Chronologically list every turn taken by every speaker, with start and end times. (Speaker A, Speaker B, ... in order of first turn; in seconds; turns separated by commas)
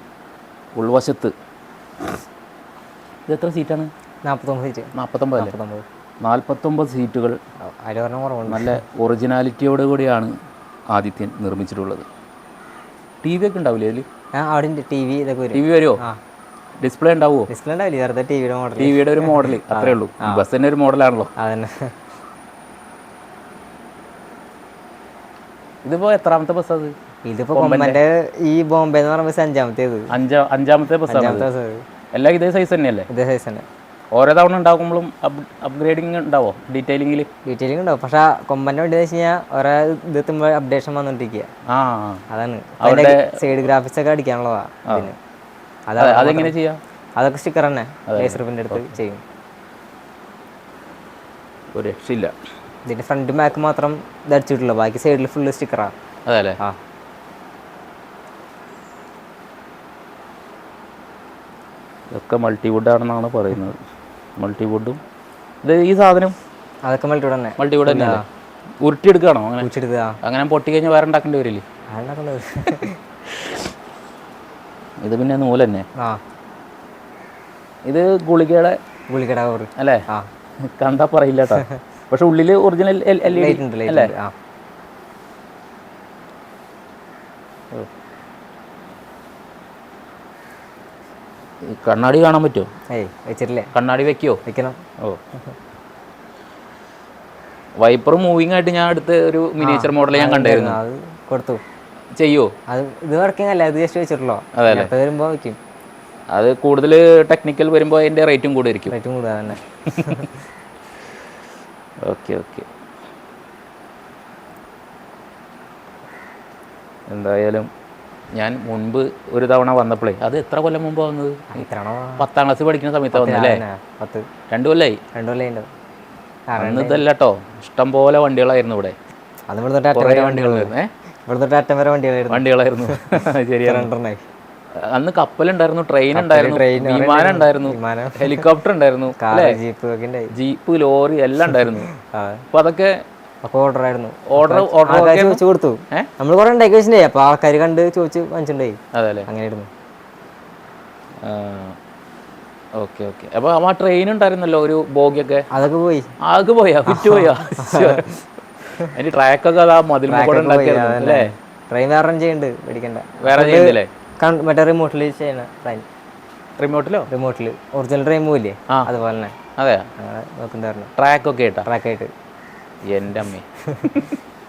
Speaker A: 0.8-1.4, Speaker A: 3.3-3.9, Speaker B: 4.2-5.9, Speaker A: 5.0-5.5, Speaker A: 6.2-7.4, Speaker B: 7.6-8.8, Speaker A: 8.4-10.3, Speaker A: 10.9-12.1, Speaker A: 13.2-14.1, Speaker B: 14.3-16.2, Speaker A: 15.5-16.0, Speaker A: 16.8-17.5, Speaker B: 17.5-20.5, Speaker A: 18.8-21.3, Speaker B: 21.4-22.0, Speaker A: 25.9-26.9, Speaker B: 27.2-30.1, Speaker A: 27.6-28.0, Speaker A: 30.1-31.5, Speaker B: 31.1-31.8, Speaker A: 32.1-33.1, Speaker B: 33.1-33.7, Speaker A: 34.1-37.3, Speaker B: 37.5-41.5, Speaker A: 41.7-42.2, Speaker B: 42.3-45.2, Speaker A: 42.8-43.4, Speaker B: 45.9-46.5, Speaker A: 46.0-46.8, Speaker B: 47.2-49.2, Speaker A: 48.1-48.9, Speaker A: 51.7-52.3, Speaker B: 52.9-56.0, Speaker A: 56.3-56.6, Speaker A: 62.1-63.8, Speaker A: 64.4-65.0, Speaker A: 65.6-66.3, Speaker B: 66.8-68.2, Speaker A: 67.6-68.2, Speaker A: 68.8-69.7, Speaker B: 69.6-70.2, Speaker A: 70.2-71.6, Speaker B: 71.9-73.0, Speaker A: 73.3-73.6, Speaker A: 75.0-75.9, Speaker A: 77.9-78.8, Speaker B: 79.1-80.3, Speaker A: 79.8-80.0, Speaker A: 80.6-84.1, Speaker B: 81.5-81.8, Speaker B: 83.3-84.3, Speaker A: 91.6-92.7, Speaker B: 92.9-93.7, Speaker A: 93.7-94.4, Speaker B: 94.5-94.8, Speaker A: 97.8-100.8, Speaker B: 99.6-101.6, Speaker A: 102.2-102.5, Speaker B: 102.7-105.6, Speaker A: 104.5-104.9, Speaker A: 106.3-108.9, Speaker B: 108.9-110.3, Speaker A: 109.9-110.3, Speaker A: 112.0-112.7, Speaker A: 117.1-117.7, Speaker A: 118.3-121.7, Speaker B: 121.5-122.3, Speaker A: 122.2-123.6, Speaker B: 123.1-124.3, Speaker A: 124.5-125.0, Speaker B: 125.1-125.7, Speaker B: 126.5-127.0, Speaker A: 126.6-129.0, Speaker B: 129.5-130.7, Speaker A: 129.9-130.9, Speaker B: 131.3-134.2, Speaker A: 132.3-133.9, Speaker A: 134.8-139.6, Speaker B: 136.1-138.5, Speaker B: 139.2-140.3, Speaker A: 140.3-141.9, Speaker B: 141.5-142.4, Speaker A: 142.5-143.0, Speaker B: 143.4-149.7, Speaker A: 144.3-146.1, Speaker A: 148.9-149.3, Speaker A: 151.2-151.8, Speaker A: 152.8-155.5, Speaker B: 155.5-156.1, Speaker A: 156.2-161.3, Speaker B: 156.9-158.2, Speaker B: 160.1-165.9, Speaker A: 163.2-163.9, Speaker A: 166.6-167.1, Speaker B: 167.1-169.4, Speaker A: 169.6-169.9, Speaker B: 170.0-170.9, Speaker A: 171.0-171.7, Speaker B: 171.7-172.1, Speaker A: 172.9-174.1, Speaker B: 173.7-174.0